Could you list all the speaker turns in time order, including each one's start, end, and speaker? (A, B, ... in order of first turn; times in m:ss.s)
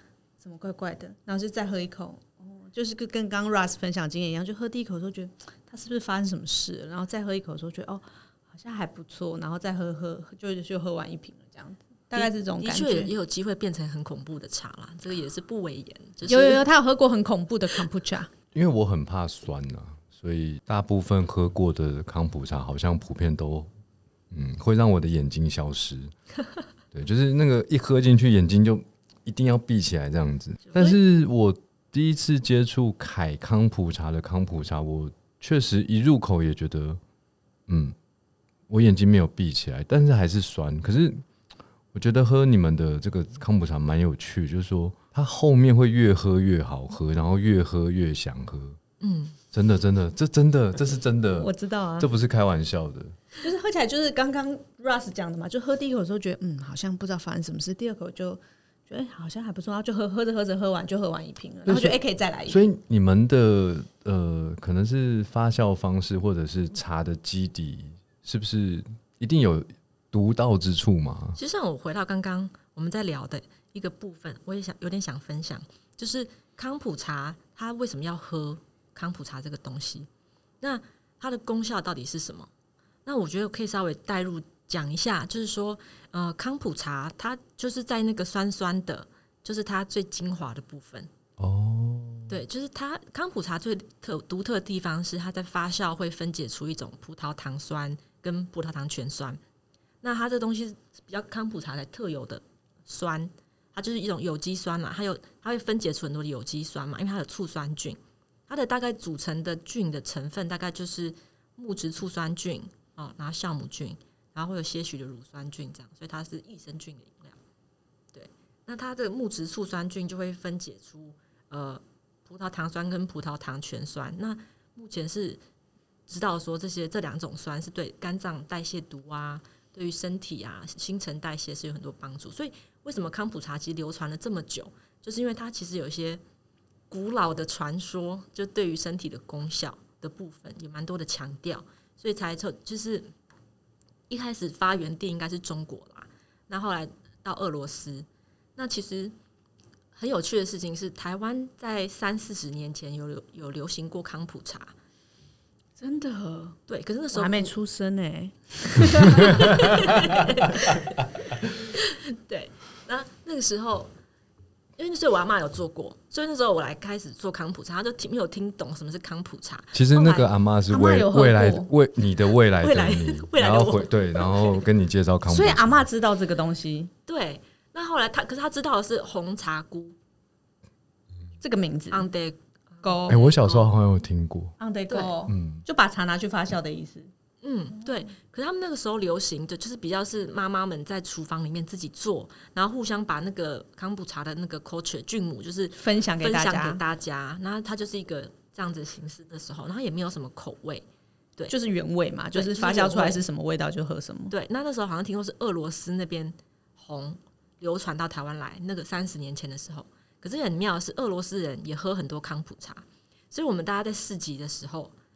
0:00.4-0:13.1 A
0:12.1-0:16.6 B
0:16.3-0:18.3 A
0:18.5-0:23.7 C
0:24.3-0:26.1 C
0:26.9-0:37.0 C
0:30.7-0:31.0 B
0:37.7-0:38.0 C
0:38.7-0:41.2 C
0:41.9-0:48.8 C
0:49.0-0:49.4 B
0:49.5-0:53.2 C
0:51.4-0:52.1 A
0:53.4-1:02.6 A
1:01.7-1:11.4 C
1:11.4-1:20.1 B
1:20.6-1:22.5 B
1:23.0-1:31.1 B
1:31.4-1:32.3 C
1:32.3-1:39.4 B
1:40.0-1:57.4 B
1:58.1-2:05.4 B
2:06.1-2:16.2 B
2:16.9-2:23.1 B
2:24.1-2:29.1 B
2:29.9-2:34.7 B
2:35.8-2:36.6 A
2:36.7-2:37.5 B
2:37.1-2:40.3 A
2:39.0-2:41.0 B
2:41.7-2:43.9 B
2:44.8-2:50.3 B
2:49.7-2:55.8 C
2:50.7-2:51.7 A
2:52.6-2:54.6 B
2:55.3-2:56.9 A
2:57.1-3:00.0 B
3:01.4-3:02.1 A
3:01.9-3:03.7 B
3:02.8-3:03.2 A
3:03.1-3:04.6 C
3:04.6-3:07.1 A
3:04.9-3:05.2 B
3:05.3-3:05.6 C
3:07.4-3:20.8 B
3:15.8-3:16.8 A
3:21.5-3:24.3 A
3:22.3-3:23.2 B
3:24.3-3:34.9 B